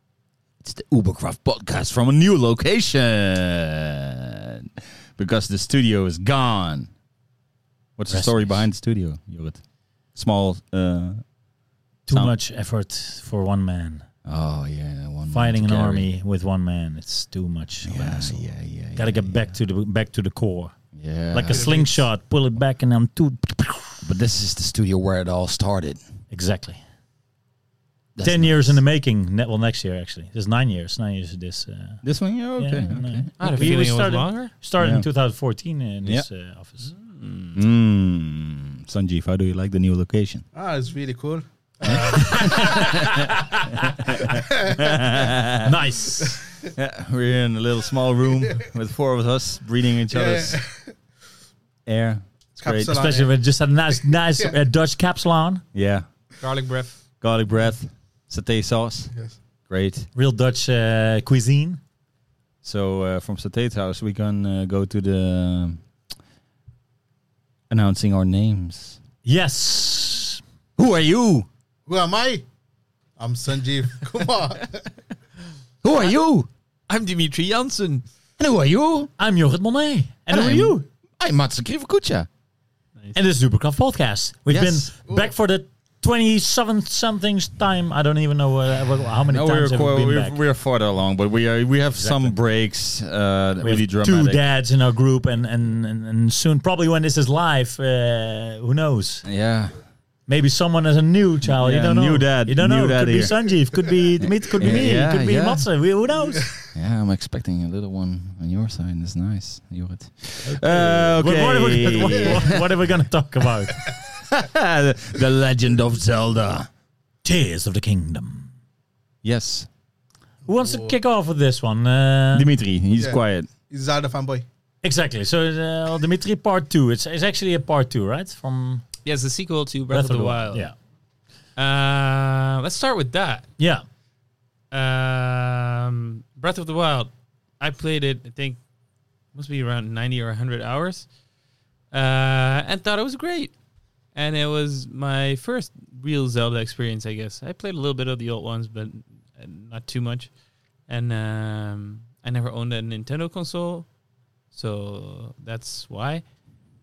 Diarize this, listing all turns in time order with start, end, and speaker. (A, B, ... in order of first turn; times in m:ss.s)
0:00.6-0:06.9 A
0:08.0-0:11.4 A
0:08.1-0:08.7 B
0:12.1-0:14.1 B
0:12.1-0:12.3 A
0:14.2-0:16.1 A
0:15.3-0:24.0 B
0:17.8-0:19.6 A
0:20.9-0:21.6 A
0:21.5-0:22.0 C
0:24.0-0:26.0 A
0:26.3-0:26.8 B
0:28.2-0:28.8 A
0:28.2-0:32.0 B
0:32.0-0:33.8 A
0:32.6-0:36.9 B
0:33.4-0:34.5 D
0:34.8-0:35.1 A
0:36.9-0:37.6 D
0:37.6-0:40.4 A
0:40.5-0:43.2 C
0:41.9-0:45.8 A
0:42.1-0:44.3 B
0:44.3-0:44.9 C
0:45.6-0:46.5 B
0:46.3-0:46.6 C
0:46.7-0:50.6 A
0:50.1-0:51.0 C
0:51.9-0:53.2 A
0:52.6-0:54.6 C
0:52.9-0:55.6 B
0:55.7-0:56.1 A
0:56.4-0:57.0 D
0:57.2-0:59.2 A
0:59.1-0:59.4 C
0:59.7-1:00.1 A
1:00.2-1:01.8 B
1:02.6-1:05.8 A
1:07.7-1:09.0 A
1:09.2-1:10.4 B
1:10.8-1:11.5 A
1:11.9-1:12.4 C
1:13.2-1:14.9 C
1:15.8-1:16.5 A
1:16.9-1:18.0 D
1:18.4-1:19.1 A
1:19.2-1:20.8 B
1:20.3-1:22.3 A
1:23.1-1:30.4 B
1:24.5-1:25.3 A
1:29.3-1:34.5 A
1:31.9-1:32.4 B
1:33.6-1:39.3 B
1:39.2-1:39.8 A
1:40.3-1:46.6 B
1:41.4-1:43.6 A
1:44.2-1:45.7 A
1:46.7-1:52.7 A
1:50.4-1:53.9 B
1:52.2-1:52.5 C
1:53.9-1:56.7 A
1:57.2-1:58.5 B
1:59.2-1:59.7 A
2:00.5-2:02.5 B
2:00.6-2:01.0 C
2:02.3-2:03.5 A
2:03.0-2:04.5 C
2:04.8-2:08.8 B
2:09.0-2:10.7 D
2:09.9-2:10.7 B
2:11.6-2:13.5 D
2:13.6-2:13.8 B
2:14.7-2:18.6 D
2:19.3-2:21.1 D
2:21.9-2:23.6 D
2:24.1-2:30.4 D
2:30.9-2:33.9 D
2:34.5-2:36.2 D